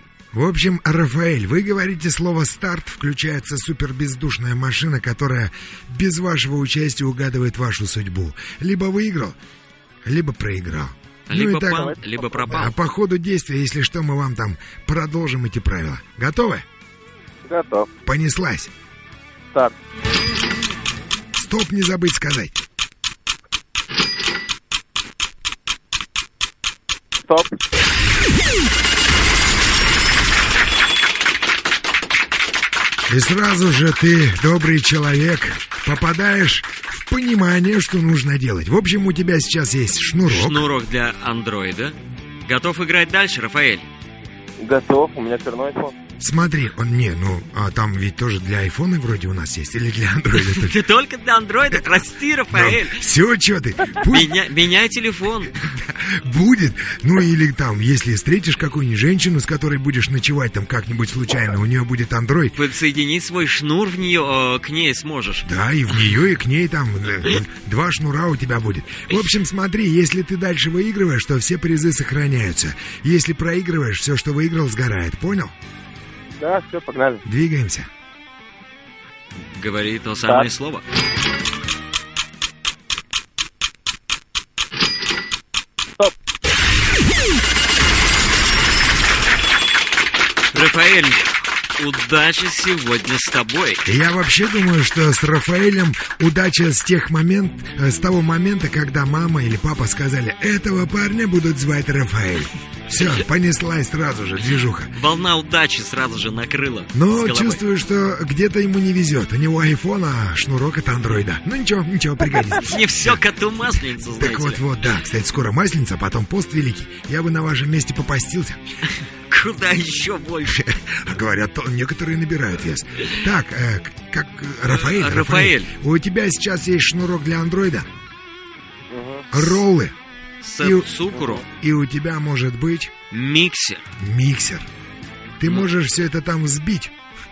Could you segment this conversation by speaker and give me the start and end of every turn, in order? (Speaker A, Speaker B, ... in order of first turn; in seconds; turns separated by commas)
Speaker A: 0.3-9.4, Speaker A: 10.0-16.6, Speaker B: 11.3-12.7, Speaker C: 11.8-12.6, Speaker C: 17.4-17.9, Speaker A: 18.0-18.7, Speaker A: 21.3-22.6, Speaker C: 27.3-27.6, Speaker A: 33.1-40.7, Speaker B: 40.3-43.9, Speaker C: 44.6-46.0, Speaker A: 46.2-50.8, Speaker B: 50.3-53.0, Speaker A: 52.5-54.4, Speaker B: 54.0-55.5, Speaker A: 55.6-62.6, Speaker B: 62.5-65.5, Speaker A: 65.4-75.5, Speaker C: 76.4-77.2, Speaker A: 77.2-77.9, Speaker B: 79.4-80.8, Speaker B: 90.5-93.9, Speaker A: 93.8-104.9, Speaker B: 104.9-107.6, Speaker A: 106.9-113.2, Speaker B: 112.6-114.6, Speaker A: 114.2-118.6, Speaker B: 119.3-120.7, Speaker A: 120.5-127.9, Speaker B: 124.6-125.7, Speaker C: 128.9-129.3, Speaker A: 129.3-129.9, Speaker B: 130.4-131.4, Speaker A: 130.6-130.9, Speaker C: 131.1-131.4, Speaker A: 131.5-132.9, Speaker B: 133.1-133.9, Speaker A: 134.0-134.7, Speaker A: 135.4-136.9